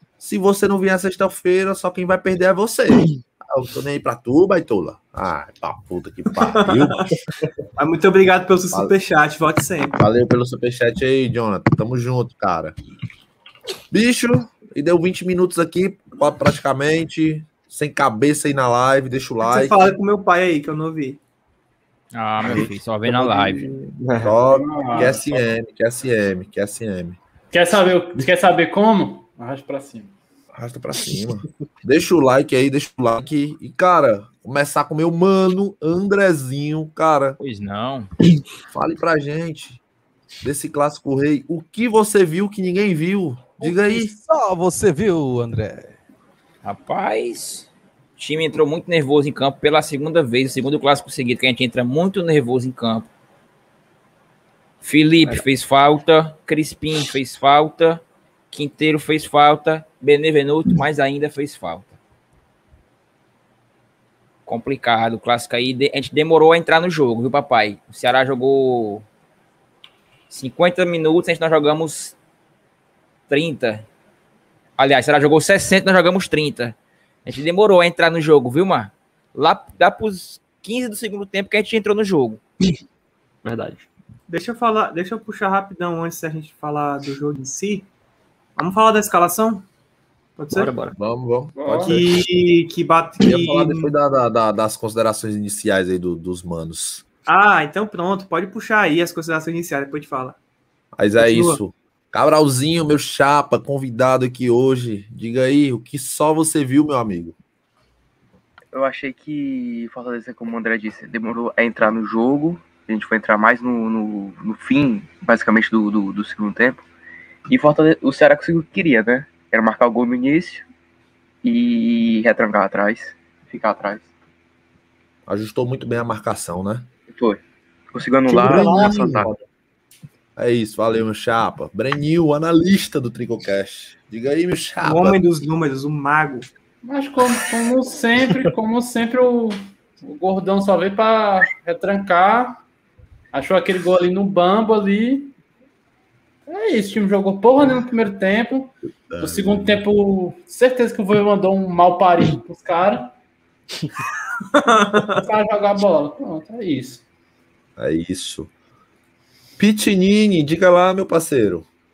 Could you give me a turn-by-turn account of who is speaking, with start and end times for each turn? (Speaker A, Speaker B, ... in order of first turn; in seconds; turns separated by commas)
Speaker A: 0.2-7.1, Speaker B: 6.4-7.0, Speaker B: 7.8-10.0, Speaker A: 10.0-12.8, Speaker A: 13.9-19.9, Speaker B: 19.4-21.2, Speaker C: 22.1-23.6, Speaker D: 22.4-22.7, Speaker A: 22.5-27.2, Speaker D: 24.0-24.3, Speaker E: 24.4-25.5, Speaker E: 27.5-30.1, Speaker A: 30.5-37.4, Speaker C: 37.4-38.1, Speaker A: 38.7-39.8, Speaker A: 40.4-44.1, Speaker F: 43.6-45.9, Speaker C: 46.6-47.7, Speaker C: 48.2-53.1, Speaker C: 54.8-62.0, Speaker C: 64.5-69.0, Speaker C: 70.3-72.1, Speaker C: 73.3-73.9, Speaker C: 74.8-82.4, Speaker D: 83.4-83.9, Speaker B: 84.3-87.9, Speaker B: 88.5-89.7, Speaker B: 90.4-90.7, Speaker D: 90.5-91.0, Speaker A: 91.0-92.2, Speaker E: 91.5-92.0, Speaker B: 91.9-93.9, Speaker A: 93.2-97.0, Speaker B: 97.3-100.4, Speaker A: 101.0-107.4, Speaker B: 101.2-101.6, Speaker G: 108.7-116.8, Speaker G: 117.5-120.7, Speaker G: 121.4-124.1, Speaker A: 125.3-126.9, Speaker G: 127.1-127.4, Speaker G: 127.9-129.3, Speaker D: 128.3-129.4, Speaker A: 128.3-129.2, Speaker A: 130.4-135.2, Speaker B: 134.8-136.5, Speaker E: 136.8-142.6, Speaker E: 143.3-145.3, Speaker E: 146.5-153.1, Speaker A: 149.1-149.8, Speaker B: 154.6-155.2, Speaker E: 155.0-157.0, Speaker A: 157.8-158.5, Speaker A: 159.6-161.7